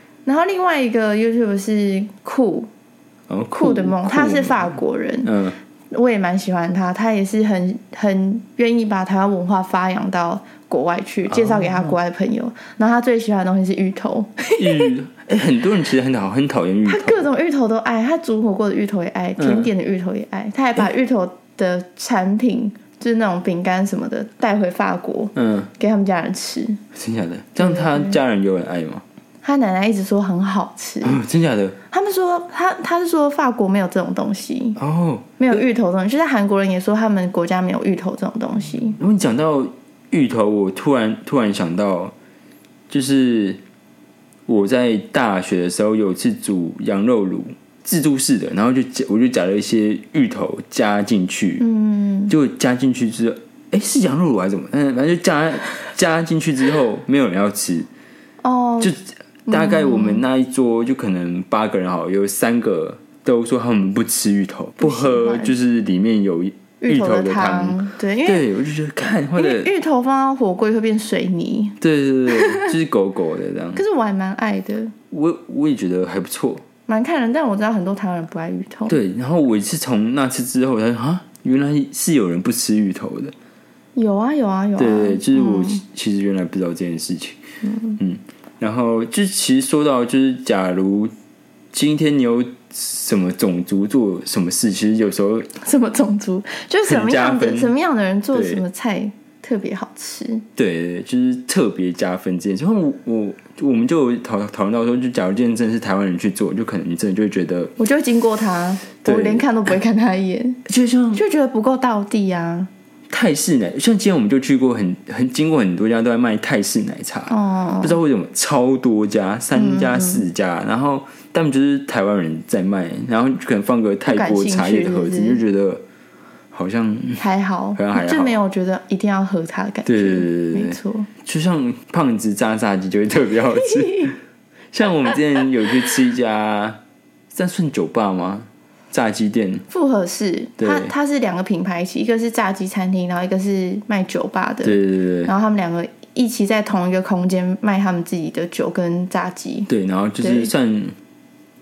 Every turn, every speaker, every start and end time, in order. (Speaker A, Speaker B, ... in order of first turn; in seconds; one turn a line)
Speaker A: 0.2-2.7
Speaker B: 3.3-5.5
Speaker A: 3.5-5.3
Speaker A: 5.9-14.9
Speaker B: 11.3-12.0
Speaker B: 14.6-17.3
Speaker A: 16.9-26.8
Speaker B: 19.4-19.7
Speaker B: 25.4-25.7
Speaker B: 26.9-29.0
Speaker A: 27.6-28.2
Speaker A: 29.4-31.2
Speaker B: 31.0-31.8
Speaker A: 31.9-34.8
Speaker B: 34.8-35.4
Speaker A: 35.4-39.0
Speaker B: 39.0-42.1
Speaker B: 42.9-43.6
Speaker B: 44.5-51.6
Speaker A: 51.6-52.3
Speaker B: 52.3-57.9
Speaker A: 58.4-58.9
Speaker B: 58.8-69.7
Speaker A: 59.5-60.2
Speaker A: 64.8-65.5
Speaker A: 66.8-68.5
Speaker A: 69.3-71.8
Speaker B: 71.8-73.8
Speaker A: 72.3-72.7
Speaker A: 73.8-74.9
Speaker B: 75.1-76.6
Speaker A: 76.9-79.0
Speaker B: 78.9-83.3
Speaker A: 84.0-85.8
Speaker B: 84.8-87.4
Speaker A: 87.6-88.0
Speaker B: 88.0-91.1
Speaker B: 91.7-95.5
Speaker A: 95.6-100.4
Speaker B: 96.9-97.7
Speaker B: 98.3-98.6
Speaker B: 100.6-107.7
Speaker A: 107.8-110.6
Speaker B: 109.0-109.4
Speaker B: 110.7-111.2
Speaker A: 111.1-112.7
Speaker B: 113.1-125.8
Speaker A: 117.3-118.0
Speaker A: 119.5-120.2
Speaker A: 124.1-125.4
Speaker B: 126.5-127.2
Speaker A: 127.2-131.1
Speaker B: 127.8-128.4
Speaker B: 129.8-134.1
Speaker A: 133.6-134.1
Speaker B: 134.7-136.8
Speaker B: 137.3-139.7
Speaker A: 139.7-149.7
Speaker B: 140.6-140.9
Speaker B: 144.6-145.3
Speaker B: 149.7-150.9
Speaker A: 150.2-150.5